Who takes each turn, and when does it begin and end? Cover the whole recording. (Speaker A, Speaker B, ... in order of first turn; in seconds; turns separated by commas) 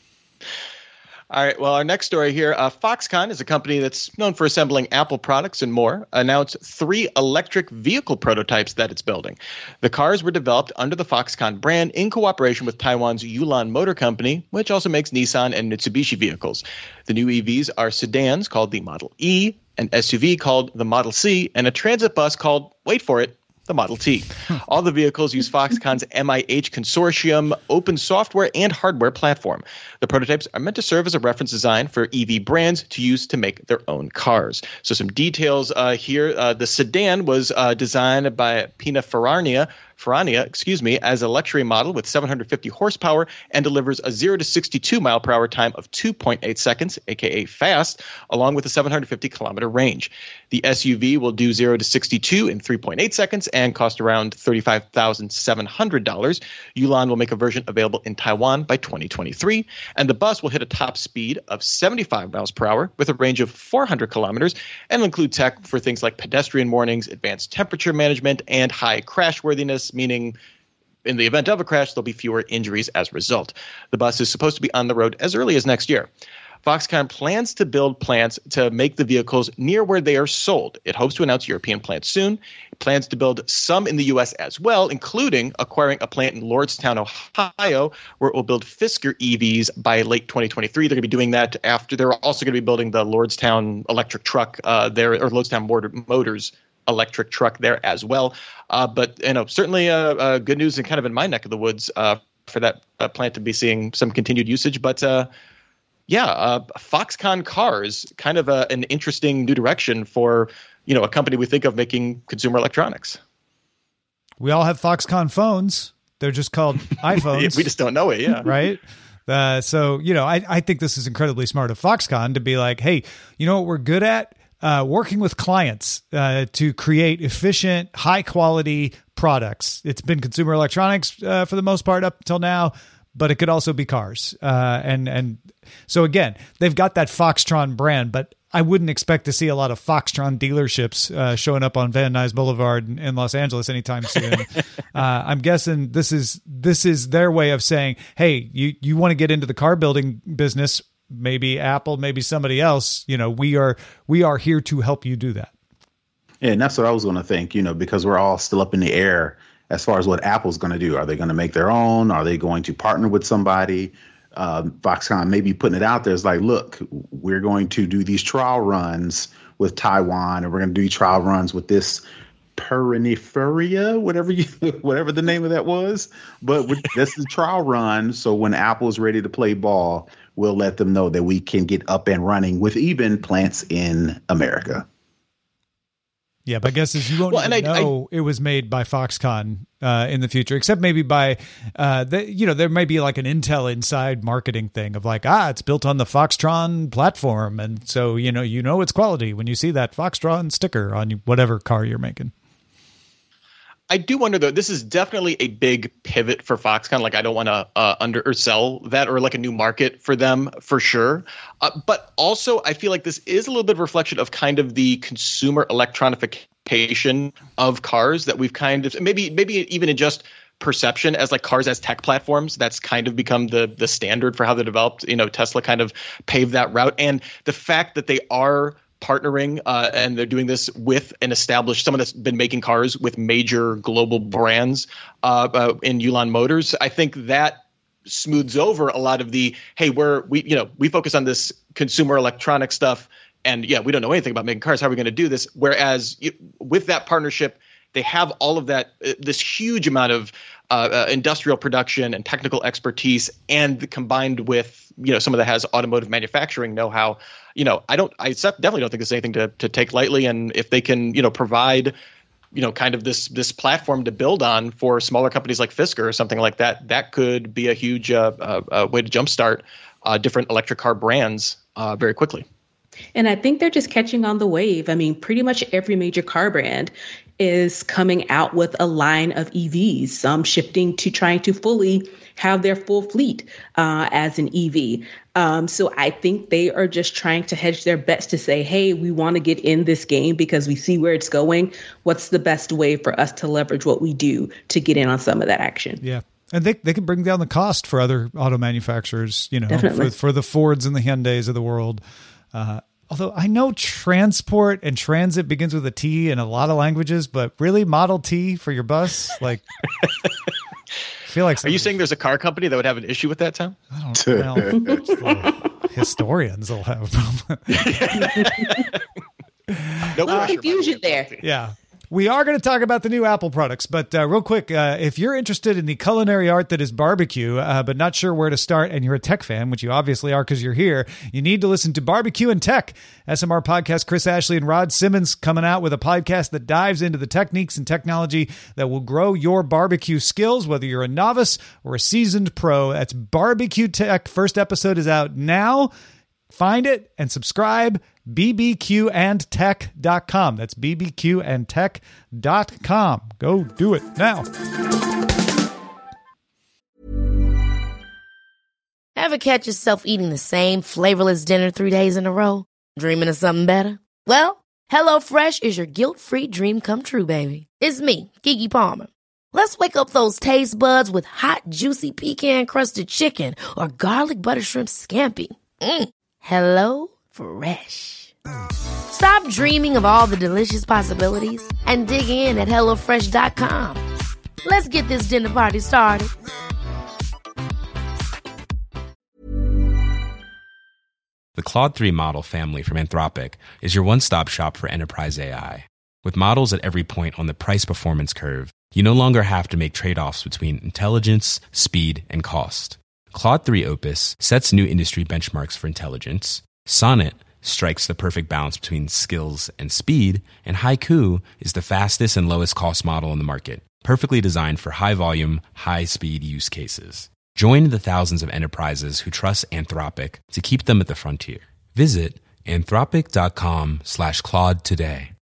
Speaker A: 1.3-70.3, Speaker A: 71.0-76.1, Speaker A: 76.6-105.3, Speaker A: 106.1-113.2, Speaker B: 114.4-117.7, Speaker A: 117.3-118.5, Speaker B: 118.4-155.5, Speaker C: 156.4-172.0, Speaker C: 172.6-184.8, Speaker B: 186.5-202.3, Speaker A: 187.3-187.9, Speaker A: 203.9-261.9, Speaker A: 262.5-272.4, Speaker D: 273.1-296.0, Speaker B: 296.0-302.0, Speaker D: 299.7-300.1, Speaker B: 302.5-309.6, Speaker B: 311.3-311.9, Speaker A: 311.6-313.8, Speaker B: 313.9-317.9, Speaker C: 314.2-314.9, Speaker A: 318.2-318.9, Speaker B: 319.7-320.5, Speaker A: 320.1-321.4, Speaker D: 320.2-321.4, Speaker B: 321.4-345.9, Speaker B: 346.5-354.4, Speaker E: 359.1-378.3, Speaker E: 379.1-384.0, Speaker E: 384.6-386.3, Speaker F: 391.6-425.3